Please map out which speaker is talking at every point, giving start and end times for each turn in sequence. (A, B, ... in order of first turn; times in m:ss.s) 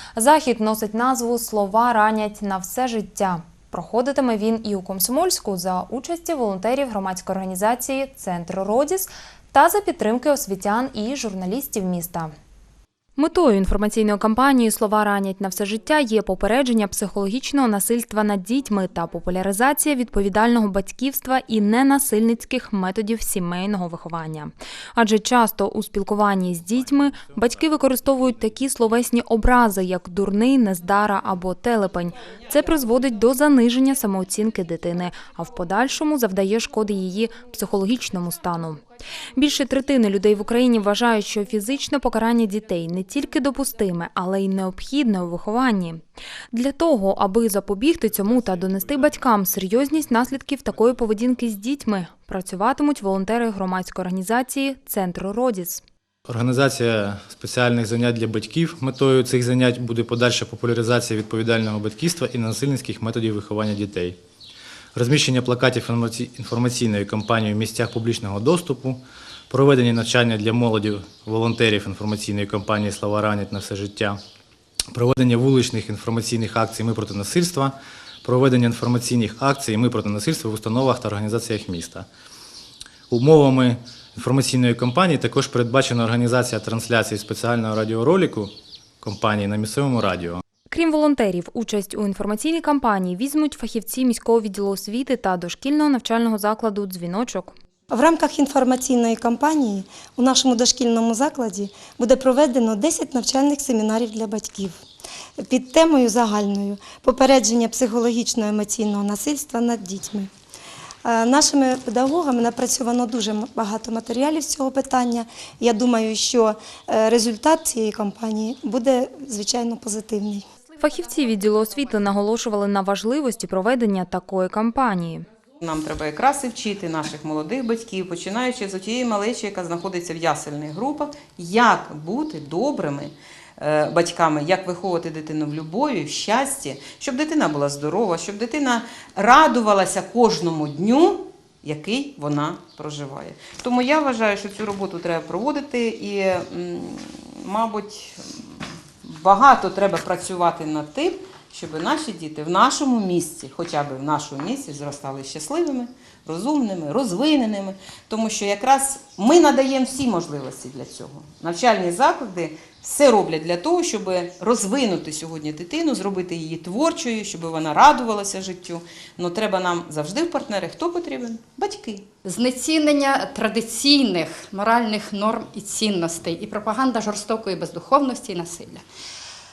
0:00.1-0:12.3 A
0:13.2-0:38.8 A
0:26.7-0:27.4 B
0:39.4-0:55.8 A
0:56.3-1:04.2 B
1:04.9-1:14.2 B
1:14.9-1:22.1 B
1:23.1-1:30.4 B
1:30.7-1:37.6 A
1:37.9-1:44.8 C
1:45.4-1:50.3 C
1:51.0-2:00.4 C
2:00.8-2:05.2 A
2:05.6-2:52.0 D
2:52.2-2:58.8 E